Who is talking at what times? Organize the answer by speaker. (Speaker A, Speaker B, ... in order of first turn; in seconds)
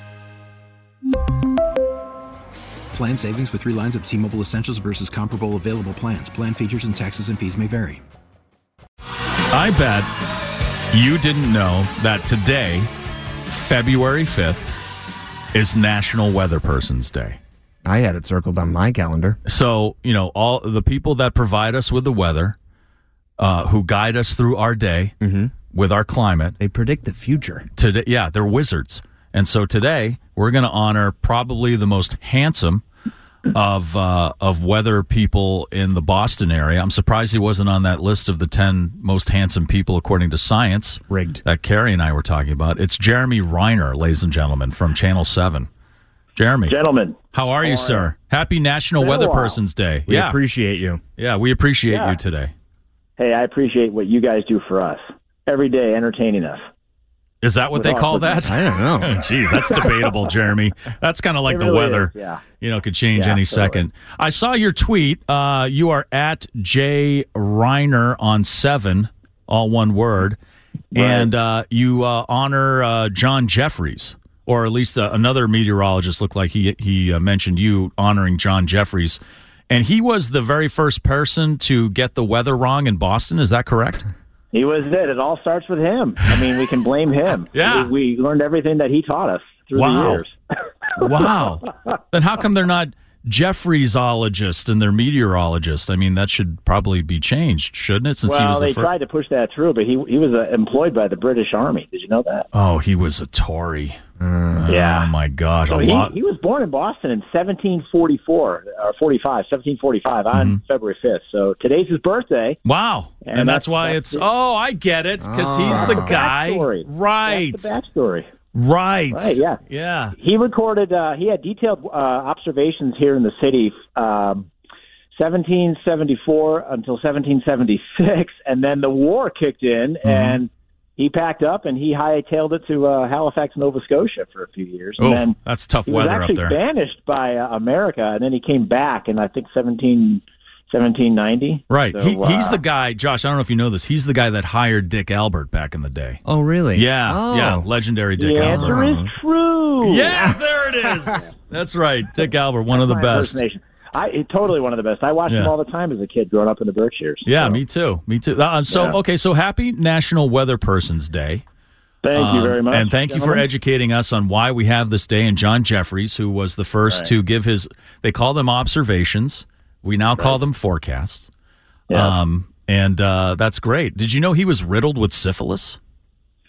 Speaker A: 2.9-8.0
Speaker B: 9.5-10.1, 10.9-12.9, 13.5-14.7, 15.5-17.4, 19.4-22.6, 23.4-25.1, 25.7-26.6, 27.8-32.8, 33.5-45.7, 46.4-46.8, 47.3-50.4, 51.2-52.5, 57.4-70.4, 70.9-84.1, 87.5-87.9, 89.8-90.2, 91.0-98.9, 102.5-104.0, 104.5-106.1, 110.3-110.6, 112.6-117.7, 118.5-120.2, 130.0-130.4, 135.0-136.6, 141.7-146.2, 146.7-148.8, 149.8-153.4, 155.3-155.5, 157.2-161.4, 162.1-171.3, 171.9-175.8
Speaker C: 17.8-19.3, 26.6-27.6, 41.1-41.4, 50.4-51.0, 146.2-147.6
Speaker D: 46.7-48.1, 49.0-49.6, 51.9-52.2, 53.2-56.6, 57.7-58.4, 61.5-62.4, 63.1-63.8, 70.9-71.3, 84.5-90.3, 98.2-102.5, 104.7-105.1, 105.7-112.6, 113.2-114.2, 115.6-118.3, 119.1-119.6, 120.2-124.5, 125.1-135.3, 135.9-142.6, 148.2-150.3, 152.7-157.6, 158.7-159.0, 162.0-163.5, 171.9-172.2